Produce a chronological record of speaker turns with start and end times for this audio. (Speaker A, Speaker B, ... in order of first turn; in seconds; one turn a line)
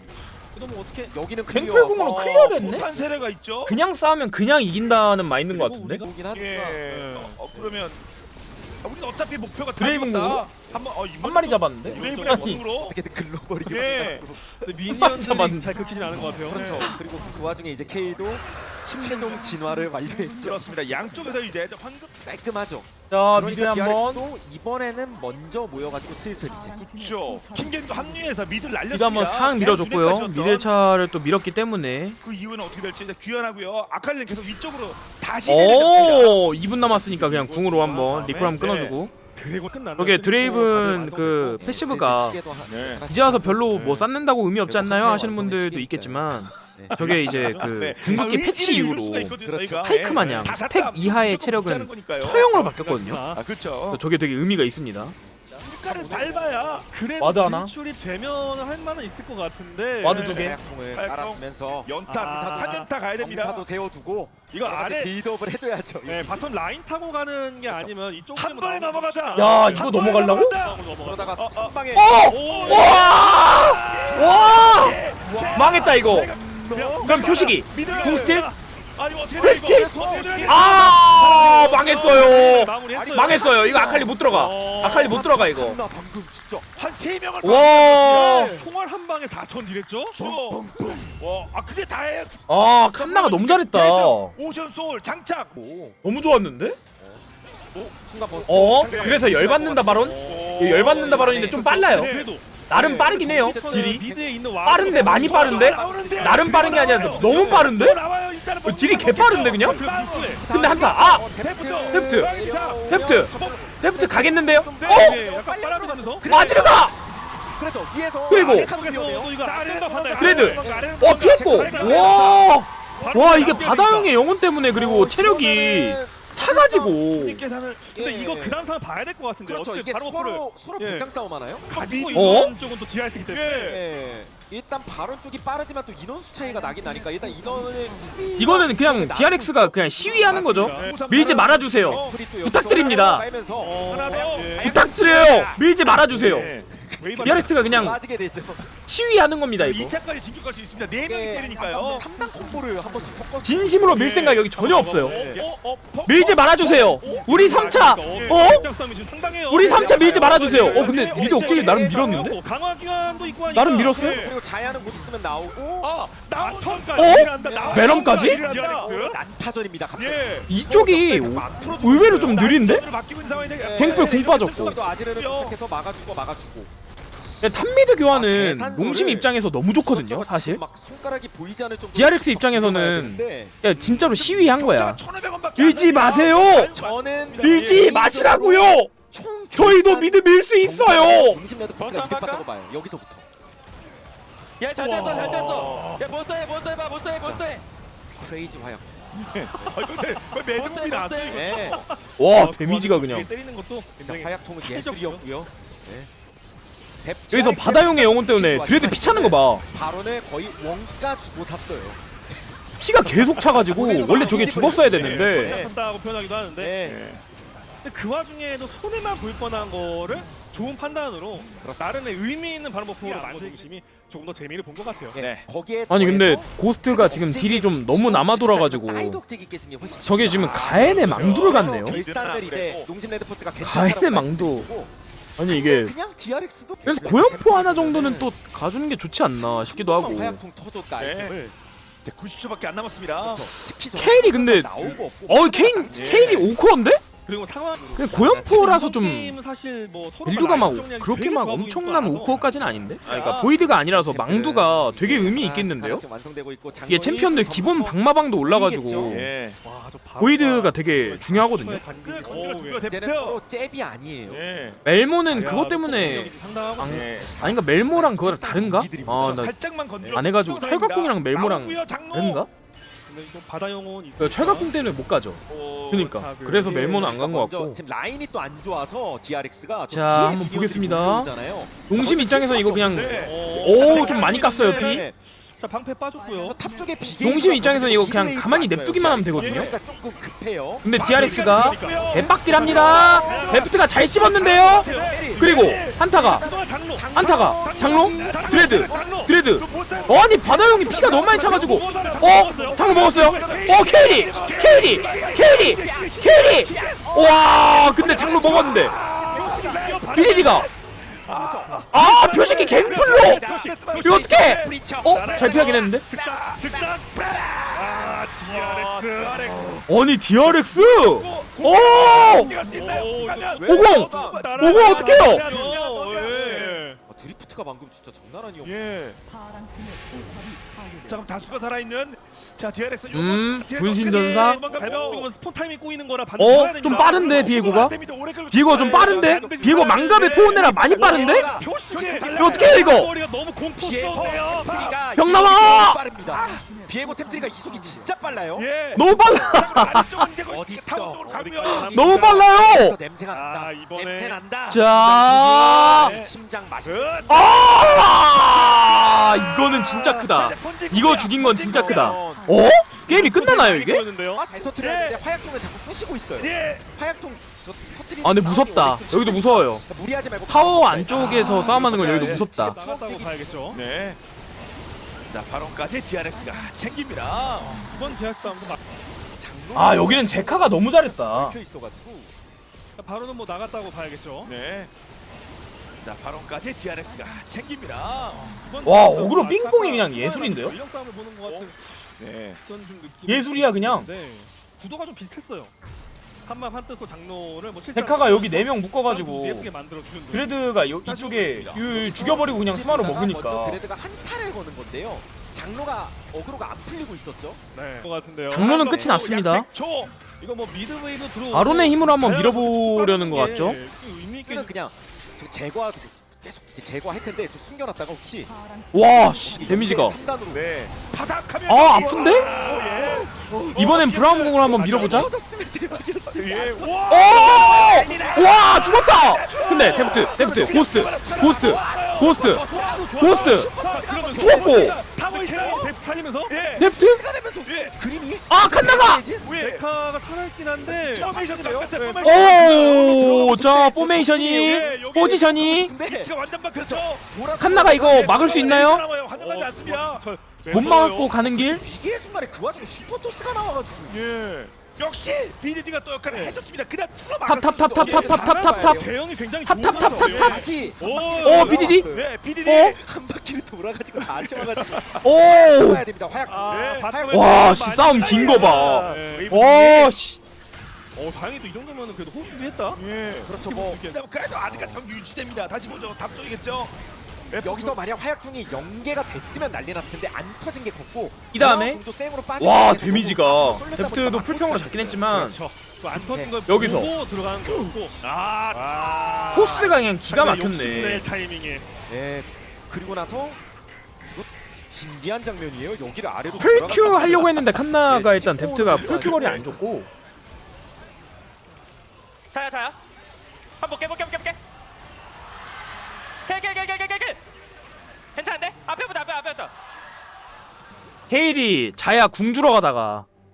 Speaker A: 0.5-1.1
Speaker B: 1.0-2.1
Speaker C: 1.5-2.9
Speaker D: 1.9-3.8
Speaker C: 3.6-6.0
Speaker B: 5.5-6.8
Speaker D: 6.3-8.0
Speaker A: 6.9-7.4
Speaker D: 8.8-13.0
Speaker C: 9.8-10.4
Speaker C: 11.2-12.6
Speaker A: 11.8-12.5
Speaker B: 11.9-14.4
Speaker D: 13.6-14.3
Speaker A: 14.6-16.9
Speaker C: 14.7-15.8
Speaker B: 16.2-21.4
Speaker D: 16.5-17.0
Speaker D: 19.0-19.5
Speaker D: 20.3-22.3
Speaker B: 22.2-26.9
Speaker C: 23.1-24.2
Speaker D: 26.8-30.7
Speaker C: 28.9-32.2
Speaker D: 32.2-36.4
Speaker C: 35.5-39.1
Speaker A: 36.7-41.6
Speaker C: 40.0-42.4
Speaker B: 40.6-44.0
Speaker D: 42.6-43.0
Speaker C: 43.1-53.2
Speaker A: 43.7-44.1
Speaker B: 44.6-47.7
Speaker A: 46.9-47.7
Speaker D: 47.0-52.5
Speaker B: 49.4-49.9
Speaker A: 50.1-50.6
Speaker A: 52.3-53.5
Speaker D: 53.3-54.0
Speaker C: 53.9-55.1
Speaker B: 55.3-56.9
Speaker D: 55.6-56.9
Speaker A: 56.9-60.3
Speaker C: 57.2-57.7
Speaker C: 60.0-60.6
Speaker D: 60.1-63.7
Speaker B: 60.2-66.4
Speaker A: 62.1-62.9
Speaker A: 64.5-65.1
Speaker A: 66.0-71.4
Speaker D: 68.3-70.8
Speaker C: 69.3-70.6
Speaker B: 71.0-73.0
Speaker D: 71.3-82.2
Speaker C: 71.9-76.3
Speaker A: 72.3-73.1
Speaker B: 75.2-77.0
Speaker A: 76.7-78.5
Speaker C: 77.0-78.5
Speaker B: 79.4-81.4
Speaker C: 79.4-79.9
Speaker C: 80.4-85.8
Speaker A: 80.8-83.5
Speaker B: 82.8-86.7
Speaker D: 84.3-85.2
Speaker D: 86.8-88.5
Speaker C: 87.4-88.6
Speaker A: 88.0-90.2
Speaker D: 90.1-95.6
Speaker B: 90.2-91.1
Speaker C: 92.5-94.3
Speaker B: 95.5-96.0
Speaker C: 96.0-96.8
Speaker B: 97.0-97.2
Speaker D: 97.7-99.3
Speaker B: 97.9-102.0
Speaker C: 98.5-102.1
Speaker A: 99.9-102.5
Speaker D: 100.2-102.3
Speaker C: 102.7-104.0
Speaker B: 102.7-107.7
Speaker A: 103.0-105.7
Speaker C: 104.6-108.0
Speaker D: 104.8-113.7
Speaker A: 106.6-107.7
Speaker C: 108.6-109.8
Speaker A: 109.3-110.5
Speaker B: 109.8-117.0
Speaker C: 110.5-111.2
Speaker C: 111.9-112.3
Speaker C: 112.8-115.2
Speaker D: 114.8-115.2
Speaker A: 114.8-116.3
Speaker C: 116.3-116.9
Speaker B: 117.5-119.3
Speaker C: 118.3-118.7
Speaker A: 118.3-122.5
Speaker D: 119.3-120.9
Speaker C: 120.2-127.4
Speaker B: 120.3-122.4
Speaker D: 121.6-122.5
Speaker A: 123.0-124.1
Speaker B: 123.0-123.6
Speaker B: 124.7-126.9
Speaker D: 126.6-127.9
Speaker A: 127.9-131.1
Speaker B: 127.9-128.6
Speaker B: 129.4-131.8
Speaker A: 131.7-133.8
Speaker D: 131.7-132.4
Speaker C: 132.1-132.5
Speaker D: 133.2-133.8
Speaker B: 133.6-140.8
Speaker C: 138.4-143.3
Speaker A: 140.2-141.5
Speaker D: 140.7-142.2
Speaker B: 141.8-148.7
Speaker A: 143.6-144.7
Speaker D: 143.8-144.7
Speaker C: 144.6-146.5
Speaker D: 145.8-146.7
Speaker A: 147.0-147.9
Speaker C: 147.2-148.0
Speaker C: 148.8-149.9
Speaker D: 149.6-152.1
Speaker B: 151.0-154.1
Speaker C: 153.4-155.2
Speaker A: 153.8-155.4
Speaker B: 155.0-155.5
Speaker D: 155.1-158.6
Speaker C: 156.0-158.7
Speaker A: 156.8-164.8
Speaker C: 159.5-162.4
Speaker D: 159.5-162.3
Speaker C: 163.5-164.2
Speaker D: 163.9-164.3
Speaker B: 163.9-165.9
Speaker D: 165.8-169.0
Speaker A: 166.3-169.2
Speaker C: 166.9-168.4
Speaker B: 167.4-171.7
Speaker D: 169.9-175.6
Speaker C: 170.5-172.8
Speaker B: 173.5-176.7
Speaker C: 173.8-174.8
Speaker C: 177.4-180.6
Speaker B: 178.1-179.3
Speaker B: 179.9-184.5
Speaker C: 181.9-185.0
Speaker D: 184.0-187.9
Speaker C: 185.6-186.7
Speaker B: 186.7-193.2
Speaker C: 187.4-188.9
Speaker C: 189.5-191.4
Speaker E: 191.8-192.4
Speaker E: 194.6-197.6
Speaker D: 194.7-196.1
Speaker B: 197.2-197.5
Speaker B: 198.1-200.0
Speaker D: 199.1-201.8
Speaker E: 200.5-201.4
Speaker A: 200.6-205.3
Speaker B: 201.3-201.8
Speaker C: 202.2-203.3
Speaker B: 204.0-206.1
Speaker B: 207.0-212.4
Speaker C: 207.3-209.6
Speaker C: 212.8-215.6
Speaker B: 213.0-215.8
Speaker A: 213.7-216.8
Speaker D: 214.4-215.4
Speaker B: 216.6-217.0
Speaker D: 216.8-217.2
Speaker A: 217.8-225.2
Speaker B: 221.5-222.0
Speaker D: 223.0-223.7
Speaker B: 225.1-234.9
Speaker D: 225.2-225.4
Speaker C: 225.9-229.2
Speaker C: 230.0-232.0
Speaker D: 230.3-232.9
Speaker A: 231.0-231.6
Speaker C: 233.6-234.7
Speaker C: 235.4-235.9
Speaker B: 235.4-238.3
Speaker C: 236.8-240.4
Speaker B: 239.7-241.5
Speaker D: 241.0-241.3
Speaker D: 242.0-243.5
Speaker B: 243.2-246.5
Speaker C: 243.9-244.7
Speaker C: 245.3-247.0
Speaker D: 245.9-246.5
Speaker A: 247.2-252.5
Speaker C: 247.9-249.3
Speaker C: 250.2-256.0
Speaker D: 253.0-253.5
Speaker B: 253.1-259.3
Speaker C: 256.9-259.3
Speaker D: 259.1-259.6
Speaker A: 259.6-262.9
Speaker C: 260.2-261.8
Speaker D: 261.9-263.4
Speaker B: 262.8-264.4
Speaker D: 264.3-264.8
Speaker C: 264.8-269.5
Speaker A: 265.3-267.0
Speaker D: 266.8-267.3
Speaker B: 267.1-270.2
Speaker D: 269.1-272.4
Speaker C: 270.1-272.5
Speaker A: 273.1-274.7
Speaker C: 274.2-277.8
Speaker D: 275.5-276.0
Speaker A: 275.9-277.2
Speaker B: 276.8-285.1
Speaker C: 279.9-281.3
Speaker C: 281.9-285.0
Speaker D: 282.9-284.9
Speaker A: 283.2-286.6
Speaker B: 286.4-290.9
Speaker C: 287.2-289.7
Speaker D: 289.4-289.8
Speaker C: 290.8-294.9
Speaker D: 290.9-296.0
Speaker A: 291.0-297.2
Speaker B: 291.7-293.7
Speaker B: 294.4-300.2
Speaker C: 295.4-296.4
Speaker C: 297.1-308.9
Speaker D: 297.3-326.8
Speaker A: 298.2-299.2
Speaker A: 300.6-303.6
Speaker B: 301.9-317.4
Speaker A: 309.3-310.7
Speaker C: 310.1-310.7
Speaker C: 311.9-313.4
Speaker A: 312.9-313.8
Speaker C: 314.0-316.0
Speaker A: 315.1-317.0
Speaker A: 317.7-319.7
Speaker C: 319.9-322.5
Speaker B: 321.9-324.4
Speaker A: 322.1-327.0
Speaker C: 323.6-325.4
Speaker B: 325.4-325.7
Speaker B: 326.6-328.8
Speaker D: 328.6-329.2
Speaker D: 331.1-335.3
Speaker C: 333.1-334.6
Speaker A: 333.9-337.9
Speaker C: 336.4-337.9
Speaker D: 336.9-342.9
Speaker C: 338.5-341.4
Speaker A: 338.7-344.9
Speaker B: 339.1-339.9
Speaker B: 340.9-342.8
Speaker C: 342.4-343.1
Speaker B: 343.8-348.7
Speaker D: 343.8-345.0
Speaker C: 345.1-346.0
Speaker D: 346.3-346.6
Speaker D: 348.5-351.9
Speaker C: 348.9-350.3
Speaker B: 350.4-357.9
Speaker A: 351.3-352.5
Speaker C: 351.7-353.0
Speaker A: 353.3-354.3
Speaker D: 353.9-354.4
Speaker C: 354.7-356.1
Speaker D: 355.6-356.3
Speaker D: 356.9-362.2
Speaker C: 357.3-364.1
Speaker B: 361.3-362.5
Speaker A: 362.9-364.4
Speaker B: 364.3-373.7
Speaker D: 364.8-365.2
Speaker D: 366.4-366.9
Speaker C: 368.2-369.8
Speaker C: 370.5-372.8
Speaker D: 371.1-372.4
Speaker A: 372.0-373.8
Speaker D: 373.7-374.2
Speaker D: 375.3-377.9
Speaker A: 377.7-378.8
Speaker B: 379.4-382.3
Speaker C: 379.7-381.6
Speaker A: 383.0-384.5
Speaker D: 384.4-384.9
Speaker D: 386.0-388.6
Speaker A: 388.4-395.7
Speaker C: 388.8-390.8
Speaker D: 391.4-392.6
Speaker C: 393.3-394.1
Speaker A: 396.4-400.5
Speaker C: 397.9-399.7
Speaker C: 400.3-403.8
Speaker D: 401.0-402.4
Speaker B: 401.9-407.6
Speaker A: 407.7-409.1
Speaker C: 408.5-409.7
Speaker D: 408.5-410.1
Speaker A: 410.4-414.7
Speaker C: 411.5-413.8
Speaker B: 414.4-418.5
Speaker C: 418.9-420.2
Speaker B: 419.1-420.9
Speaker D: 420.5-425.2
Speaker C: 421.6-422.5
Speaker B: 421.9-423.8
Speaker C: 423.7-425.3
Speaker A: 424.7-425.3
Speaker B: 424.8-428.7
Speaker D: 426.3-433.3
Speaker C: 427.1-432.6
Speaker B: 429.4-434.9
Speaker A: 429.8-430.7
Speaker A: 432.6-436.5
Speaker C: 433.2-433.7
Speaker D: 433.8-435.9
Speaker C: 434.4-435.0
Speaker D: 436.5-436.9
Speaker B: 436.7-439.5
Speaker C: 436.8-437.2
Speaker D: 437.6-437.9
Speaker C: 438.5-439.2
Speaker D: 439.4-439.8
Speaker A: 439.5-441.3
Speaker D: 441.0-450.2
Speaker B: 441.1-441.9
Speaker A: 441.9-443.0
Speaker C: 442.2-445.9
Speaker B: 442.7-448.9
Speaker A: 444.7-445.0
Speaker C: 447.6-449.0
Speaker A: 449.3-451.3
Speaker C: 450.7-451.8
Speaker B: 451.4-454.2
Speaker D: 454.1-458.6
Speaker A: 456.3-456.6
Speaker C: 457.4-459.0
Speaker B: 457.8-459.1
Speaker A: 458.4-462.0
Speaker C: 459.6-460.7
Speaker B: 459.8-462.3
Speaker D: 460.5-463.0
Speaker C: 461.4-462.1
Speaker C: 462.6-463.0
Speaker B: 462.9-467.8
Speaker D: 464.1-465.2
Speaker C: 465.2-466.0
Speaker A: 466.5-469.5
Speaker D: 466.7-467.1
Speaker C: 467.3-470.4
Speaker D: 468.1-470.1
Speaker A: 471.1-475.0
Speaker D: 472.9-473.5
Speaker B: 473.4-474.0
Speaker D: 474.0-476.9
Speaker D: 477.5-478.0
Speaker B: 477.6-485.5
Speaker C: 481.5-482.0
Speaker C: 482.6-485.6
Speaker A: 485.3-491.9
Speaker B: 486.1-486.6
Speaker C: 486.7-487.1
Speaker D: 487.7-489.9
Speaker C: 489.5-491.3
Speaker B: 492.1-493.6
Speaker B: 494.2-499.8
Speaker C: 496.6-500.1
Speaker D: 498.9-499.6
Speaker E: 502.5-502.9
Speaker E: 503.8-504.6
Speaker E: 506.4-507.4
Speaker E: 508.3-509.7
Speaker C: 511.3-513.2